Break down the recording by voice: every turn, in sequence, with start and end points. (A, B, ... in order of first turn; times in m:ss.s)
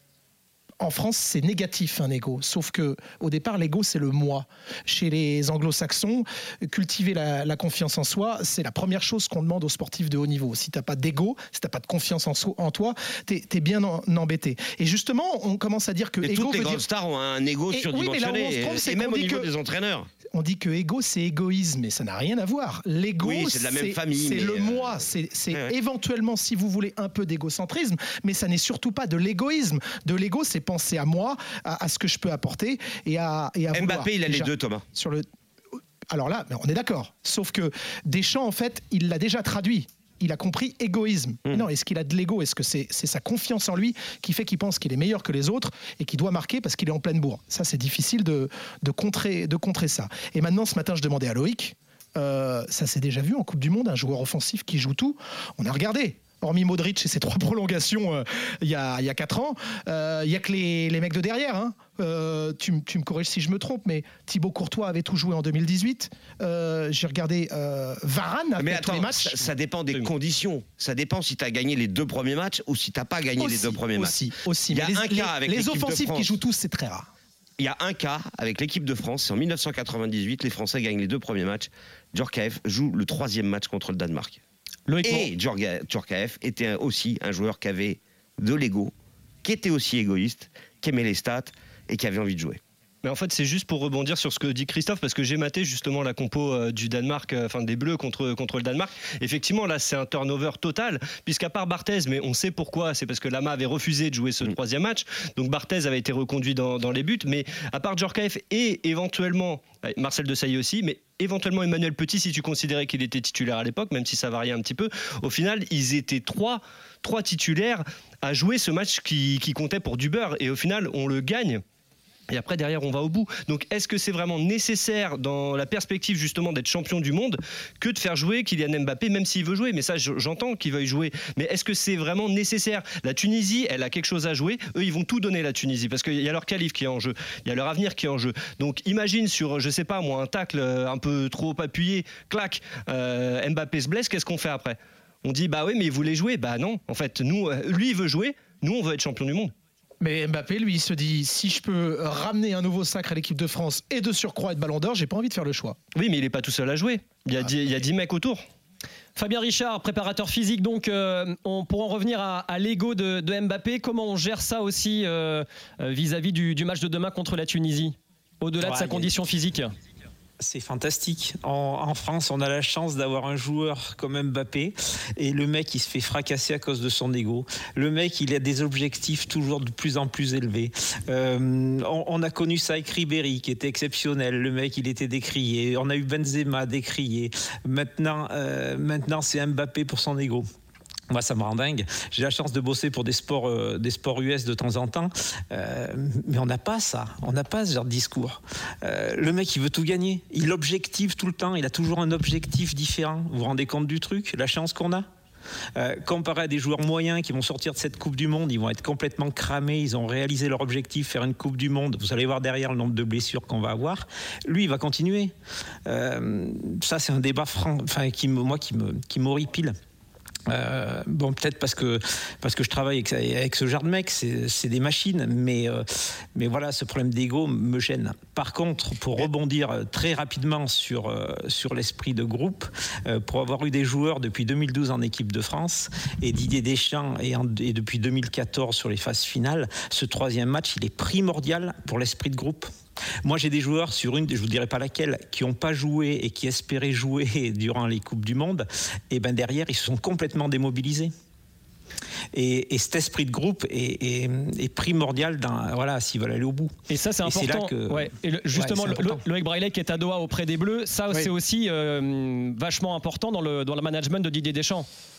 0:00.8-0:16.8 A
0:16.2-0:20.1 B
0:17.7-0:19.5 A
0:20.3-0:35.3 A
0:23.2-0:25.7 B
0:33.7-0:34.8 B
0:36.1-1:09.5 A
1:08.6-1:16.4 B
1:13.4-1:17.1 A
1:17.6-1:24.4 B
1:24.9-1:25.3 C
1:25.0-1:28.9 B
1:29.4-1:32.6 B
1:33.0-2:01.6 D
2:02.3-2:29.5 D
2:30.0-2:35.8 A
2:36.0-2:38.4 D
2:39.2-2:49.7 C
2:48.6-2:49.2 E
2:50.4-3:10.5 E
3:11.1-3:25.1 E
3:25.8-3:35.3 E
3:35.9-3:39.8 E
3:40.5-4:02.7 E
4:03.2-4:11.1 E
4:12.3-4:19.2 E
4:16.9-4:24.9 C